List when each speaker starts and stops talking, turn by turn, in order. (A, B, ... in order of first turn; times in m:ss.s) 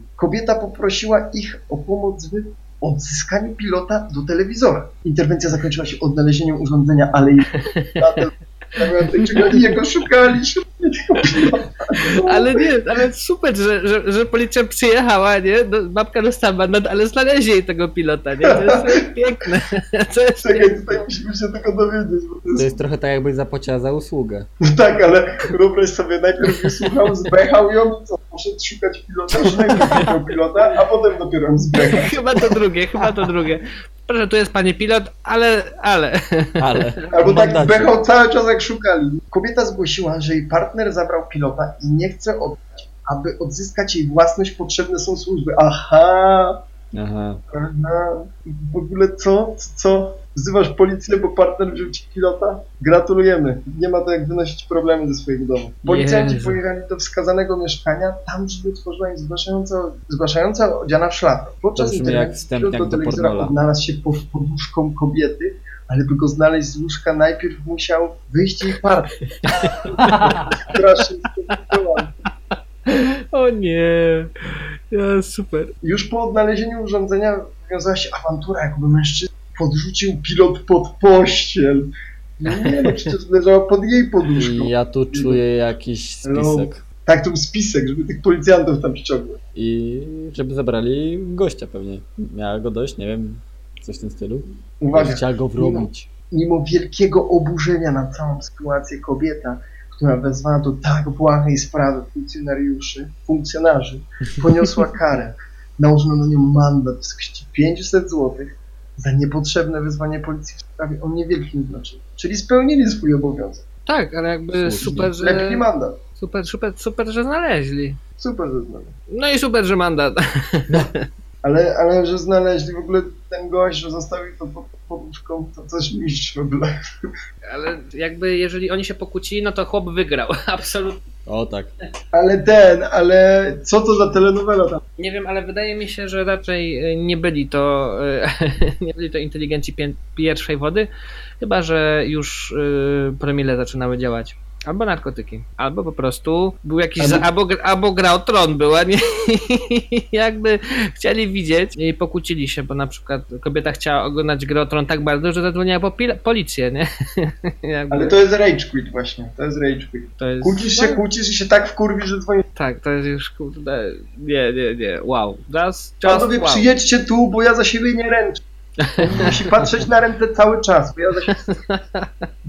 0:00.2-0:12.7 A
0:07.6-0:08.1 B
0:08.8-0:09.5 B
0:12.0-0:20.8 B
0:18.4-0:19.0 A
0:20.4-0:22.7 A
0:22.5-0:24.5 C
0:24.6-0:32.2 A
0:29.5-0:30.0 C
0:31.8-0:36.7 B
0:36.6-0:37.9 C
0:37.1-0:46.6 A
0:46.9-0:47.4 C
0:47.5-1:09.1 A
0:55.8-0:56.6 B
1:01.8-1:03.5 C
1:09.8-1:12.1 A
1:10.0-1:10.6 C
1:11.5-1:11.8 B
1:12.9-1:15.7 B
1:15.8-1:25.4 A
1:22.7-1:23.0 B
1:24.4-1:26.8 C
1:26.2-1:29.4 A
1:29.6-1:36.1 C
1:34.8-1:53.6 A
1:53.9-1:55.6 B
1:54.5-1:55.1 C
1:54.8-1:56.0 A
1:56.2-1:58.0 B
1:58.2-1:58.9 A
1:59.1-2:01.0 B
2:01.4-2:07.1 A
2:07.5-2:11.0 B
2:11.3-2:11.7 C
2:12.1-2:14.8 A
2:15.0-2:20.9 B
2:21.4-2:38.2 B
2:27.0-2:27.3 A
2:37.9-2:42.5 A
2:40.2-2:41.0 B
2:42.6-2:46.7 B
2:46.0-2:48.4 A
2:48.8-2:49.4 B
2:49.0-2:51.4 A
2:51.3-2:52.3 B